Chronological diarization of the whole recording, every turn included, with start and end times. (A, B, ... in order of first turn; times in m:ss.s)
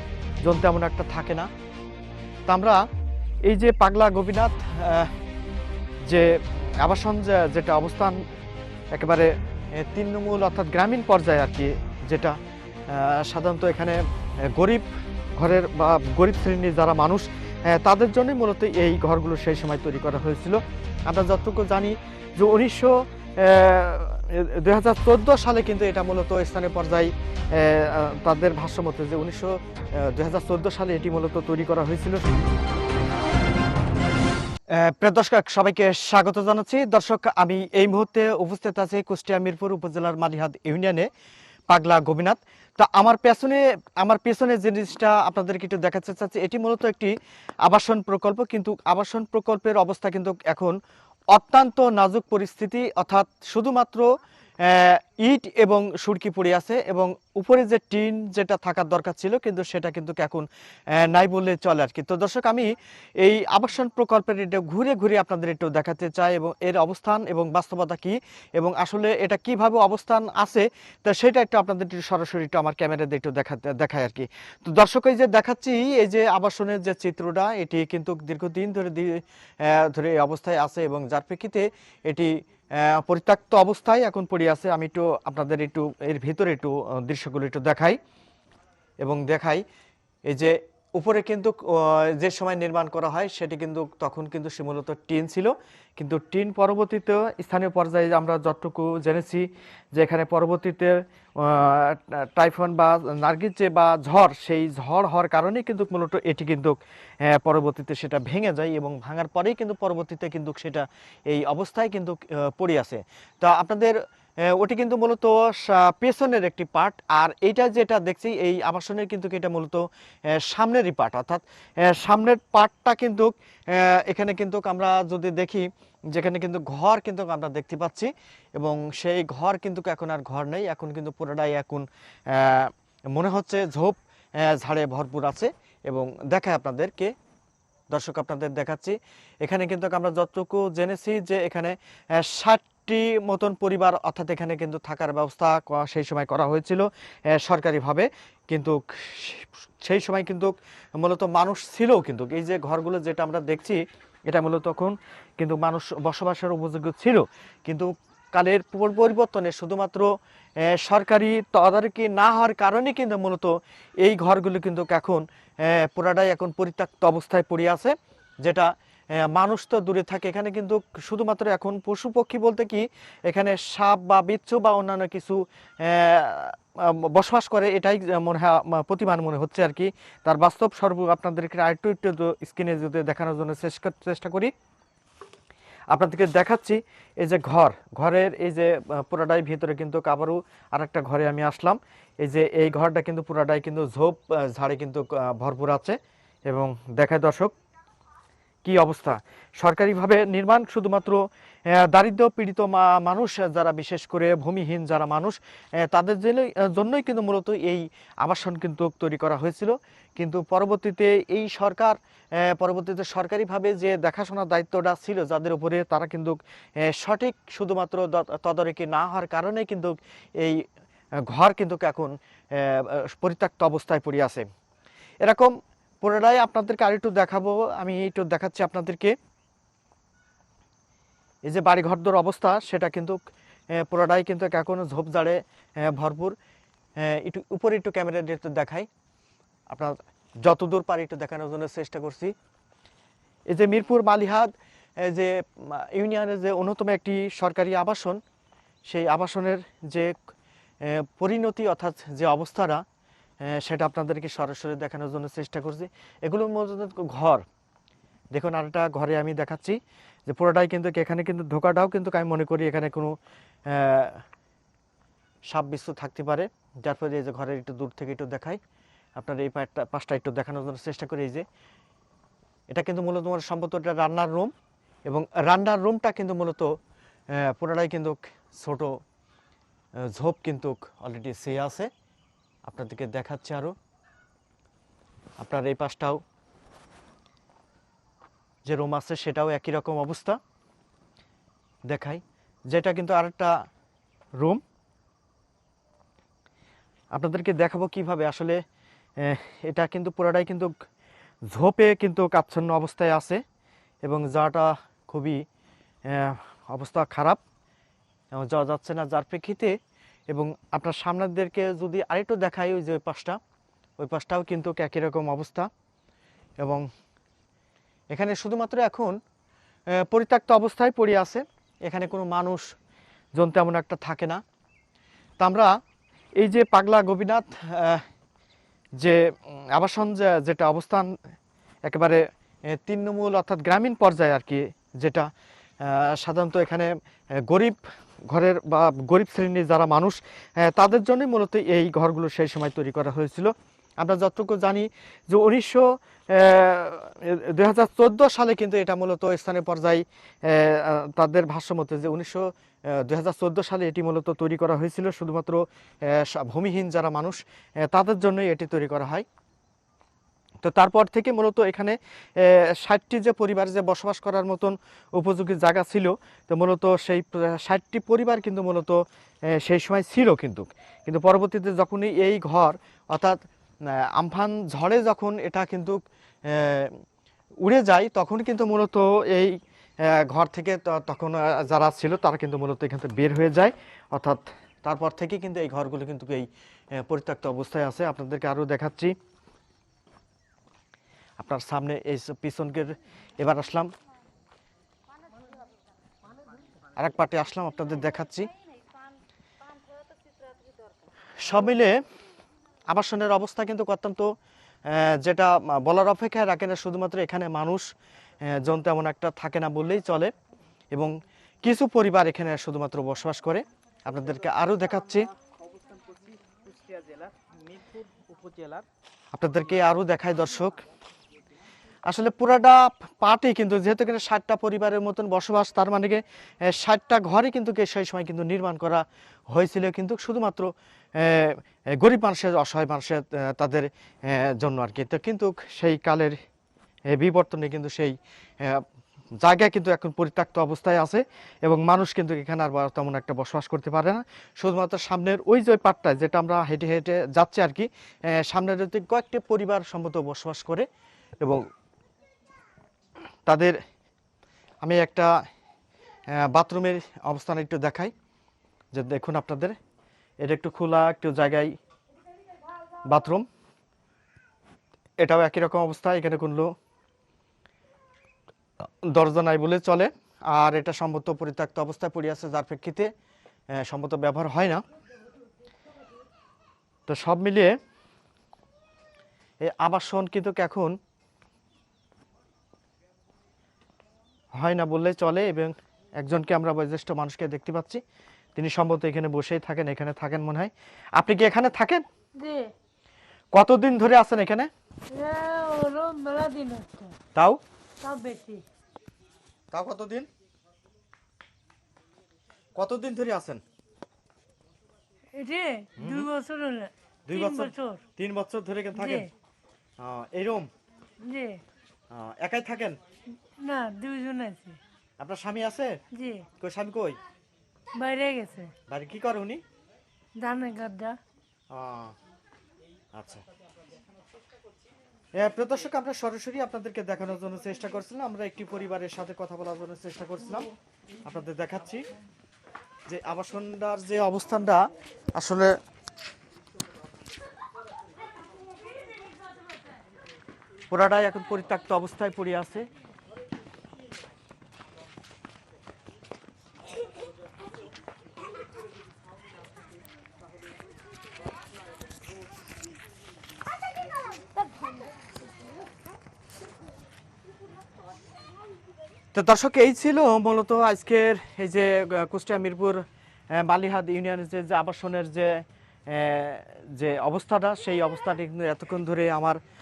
0:00.4-0:01.5 A
0:02.5-0:02.8 A
0:03.4-0:05.1 A
0:06.0-0:08.2 A
0:08.9-0:32.3 A
0:34.7-0:41.1 A
0:41.7-0:47.1 A
0:47.6-0:50.7 A
0:51.3-0:54.0 A
0:54.6-1:02.7 A
1:03.2-1:28.0 A
1:29.0-1:29.6 A
1:30.3-1:59.8 A
2:00.3-2:17.1 A
2:17.9-2:40.1 A
2:40.7-3:04.5 A
3:05.9-3:16.0 A
3:16.5-3:17.5 A
3:18.6-3:40.6 A
3:41.3-3:44.4 A
3:45.2-3:49.1 A
3:51.4-3:53.2 A
3:53.7-3:56.3 A
3:57.0-3:58.9 A
3:59.7-4:02.3 A
4:03.5-4:08.2 A
4:08.9-4:10.1 A
4:10.8-4:12.8 A
4:13.4-4:17.4 A
4:18.3-4:23.1 A
4:23.7-4:24.2 A
4:25.5-4:28.6 A
4:29.2-4:31.4 A
4:32.7-4:34.5 A
4:35.0-4:36.7 A
4:37.3-4:38.9 A
4:40.1-4:41.9 A
4:42.6-4:43.7 A
4:45.4-4:46.2 A
4:48.6-4:50.4 A
4:51.9-4:53.5 A
4:57.1-4:58.6 A
4:59.2-5:00.7 A
5:01.5-5:03.4 A
5:04.0-5:05.4 A
5:06.1-5:07.4 A
5:08.3-5:09.7 A
5:10.3-5:13.4 A
5:14.0-5:15.7 A
5:18.1-5:19.1 A
5:19.9-5:22.6 A
5:23.4-5:24.4 A
5:25.4-5:25.7 A
5:26.4-5:28.0 A
5:29.0-5:31.1 A
5:31.8-5:32.2 A
5:32.7-5:35.3 A
5:35.8-5:36.9 A
5:37.4-5:59.2 A
6:00.6-6:17.0 A
6:17.6-6:29.1 A
6:31.4-6:33.9 A
6:37.0-6:38.5 A
6:41.4-6:42.0 A
6:42.9-6:44.3 A
6:44.8-6:47.8 A
6:48.4-6:50.3 A
6:50.9-6:55.3 A
6:56.7-6:57.3 B
6:58.1-6:58.8 B
6:59.3-7:00.8 A
7:02.1-7:16.4 A
7:17.1-7:18.8 A
7:19.4-7:30.9 A
7:33.4-7:33.8 A
7:34.8-7:35.3 A
7:36.3-7:38.1 A
7:38.9-7:39.8 A
7:40.4-7:41.7 A
7:43.0-7:43.4 A
7:45.2-7:46.7 A
7:49.0-7:53.1 A
7:53.7-7:54.8 A
7:57.1-7:57.8 A
7:59.6-8:01.0 A
8:04.5-8:08.0 A
8:08.6-8:12.0 A
8:12.4-8:12.7 B
8:13.5-8:14.7 A
8:15.1-8:17.1 B
8:18.0-8:18.6 B
8:19.7-8:20.3 A
8:22.7-8:23.6 A
8:25.3-8:28.0 B
8:26.0-8:26.3 A
8:27.3-8:29.3 A
8:29.0-8:29.3 B
8:30.0-8:30.7 A
8:31.2-8:31.6 B
8:32.1-8:33.0 A
8:33.6-8:34.8 B
8:35.2-8:36.0 A
8:36.1-8:36.5 B
8:36.6-8:37.2 A
8:37.9-8:38.7 B
8:38.9-8:39.6 A
8:40.4-8:41.2 B
8:41.7-8:42.1 A
8:43.1-8:43.4 A
8:45.4-8:50.7 A
8:51.2-8:52.0 A
8:53.1-8:55.8 A
9:00.9-9:02.8 A
9:19.3-9:29.6 A